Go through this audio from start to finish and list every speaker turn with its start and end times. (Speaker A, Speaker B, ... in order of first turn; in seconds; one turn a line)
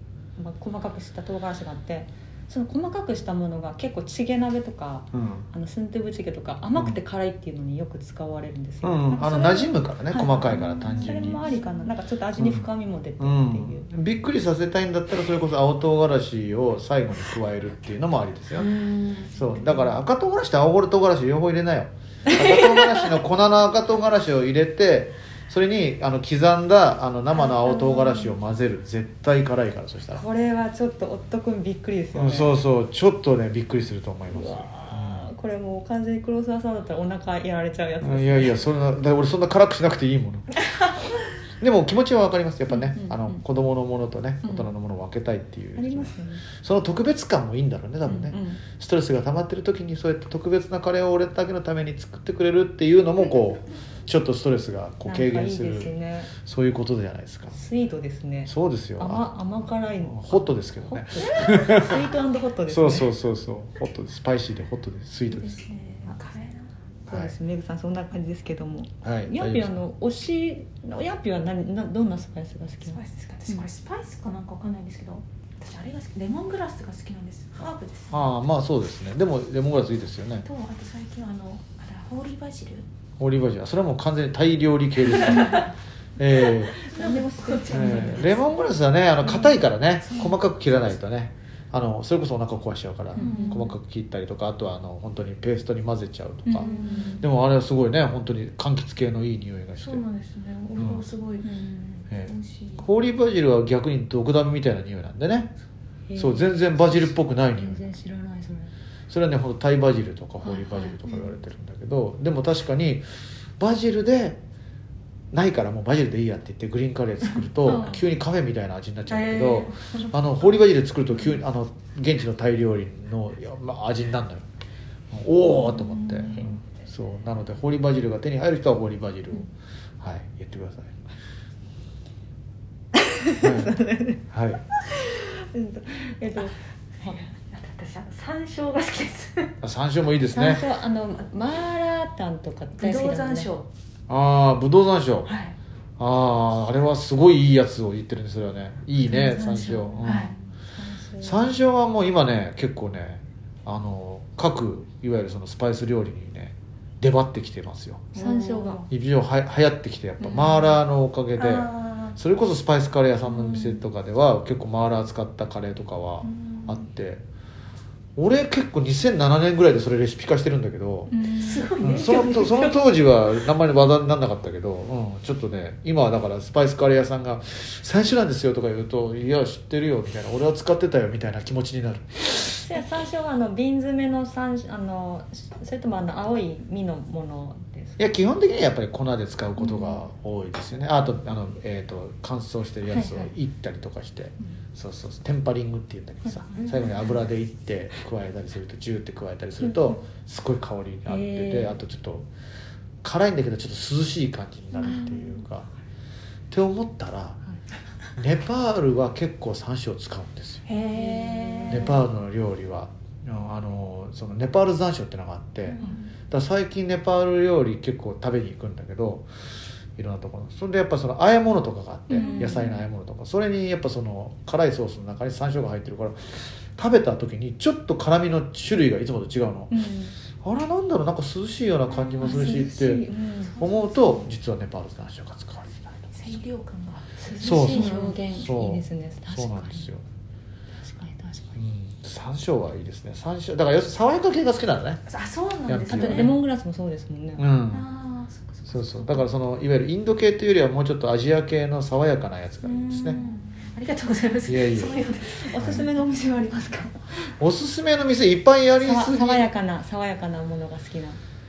Speaker A: 0.4-13.9
Speaker B: 5.1-5.5
Speaker B: 8.8-11.4
Speaker C: 10.9-11.9
Speaker B: 12.4-12.7
Speaker B: 13.2-18.8
Speaker C: 18.6-19.9
Speaker B: 19.3-30.2
Speaker A: 27.4-28.3
Speaker A: 30.1-32.5
Speaker B: 32.1-35.3
Speaker A: 34.3-38.7
Speaker B: 38.0-40.5
Speaker B: 41.6-57.6
Speaker A: 42.7-43.4
Speaker A: 44.4-44.7
Speaker A: 45.8-46.4
Speaker A: 48.1-48.6
Speaker A: 55.0-56.3
Speaker A: 57.5-63.1
Speaker B: 58.5-59.3
Speaker B: 60.1-62.0
Speaker B: 62.7-65.6
Speaker C: 65.3-66.7
Speaker A: 67.1-73.7
Speaker B: 67.1-67.3
Speaker B: 69.0-69.8
Speaker C: 72.9-78.3
Speaker B: 78.1-80.5
Speaker C: 80.5-82.9
Speaker B: 83.2-86.8
Speaker C: 85.1-85.7
Speaker C: 86.3-88.5
Speaker A: 86.8-88.3
Speaker B: 87.7-96.7
Speaker C: 89.2-90.4
Speaker A: 93.2-93.7
Speaker C: 93.2-93.7
Speaker A: 96.5-97.2
Speaker C: 96.6-97.2
Speaker B: 97.2-100.0
Speaker C: 99.8-102.9
Speaker B: 100.8-101.1
Speaker A: 101.4-101.9
Speaker B: 102.1-105.5
Speaker A: 106.1-108.7
Speaker B: 106.2-107.8
Speaker B: 109.1-113.0
Speaker A: 110.4-111.0
Speaker B: 113.6-114.4
Speaker B: 115.3-124.5
Speaker A: 117.7-118.0
Speaker C: 119.1-120.1
Speaker B: 125.1-129.5
Speaker C: 125.6-126.5
Speaker B: 130.0-131.0
Speaker A: 132.9-134.2
Speaker B: 133.4-133.8
Speaker B: 134.3-134.6
Speaker A: 134.8-137.2
Speaker C: 137.0-139.6
Speaker B: 139.6-140.6
Speaker A: 140.3-143.5
Speaker C: 142.8-143.7
Speaker B: 144.1-145.3
Speaker C: 145.3-145.6
Speaker B: 146.0-150.3
Speaker C: 149.1-150.3
Speaker A: 149.9-151.6
Speaker B: 151.2-158.2
Speaker C: 158.2-158.8
Speaker A: 158.2-158.9
Speaker B: 158.9-167.2
Speaker A: 160.2-160.7
Speaker C: 161.4-162.2
Speaker C: 163.3-163.8
Speaker C: 166.2-166.8
Speaker B: 168.2-171.1
Speaker A: 171.1-171.7
Speaker C: 171.3-172.9
Speaker B: 171.8-182.6
Speaker A: 182.5-188.0
Speaker B: 188.0-202.3
Speaker A: 189.6-190.0
Speaker A: 192.9-193.3
Speaker A: 196.3-196.7
Speaker C: 196.6-197.2
Speaker A: 199.6-200.0
Speaker A: 201.1-201.8
Speaker B: 203.0-205.7
Speaker A: 204.8-205.2
Speaker C: 204.8-205.2
Speaker B: 206.5-207.4
Speaker B: 208.2-210.7
Speaker C: 210.7-212.0
Speaker A: 210.9-212.0
Speaker B: 211.7-219.3
Speaker A: 215.7-216.0
Speaker B: 220.0-229.8
Speaker A: 222.1-222.8
Speaker C: 222.2-222.6
Speaker A: 229.7-230.2
Speaker B: 230.4-233.1
Speaker C: 232.0-232.5
Speaker A: 232.2-233.6
Speaker C: 233.4-234.3
Speaker B: 233.6-236.1
Speaker C: 236.1-238.1
Speaker A: 237.2-239.9
Speaker B: 237.4-240.0
Speaker A: 240.8-241.6
Speaker B: 241.6-245.0
Speaker C: 245.1-246.4
Speaker B: 245.7-246.4
Speaker A: 245.9-247.4
Speaker B: 247.4-247.9
Speaker C: 247.7-249.3
Speaker B: 248.7-253.2
Speaker C: 252.7-255.8
Speaker A: 252.9-253.3
Speaker B: 254.5-255.0
Speaker A: 255.3-257.3
Speaker B: 255.6-255.9
Speaker B: 257.4-259.5
Speaker A: 258.8-261.2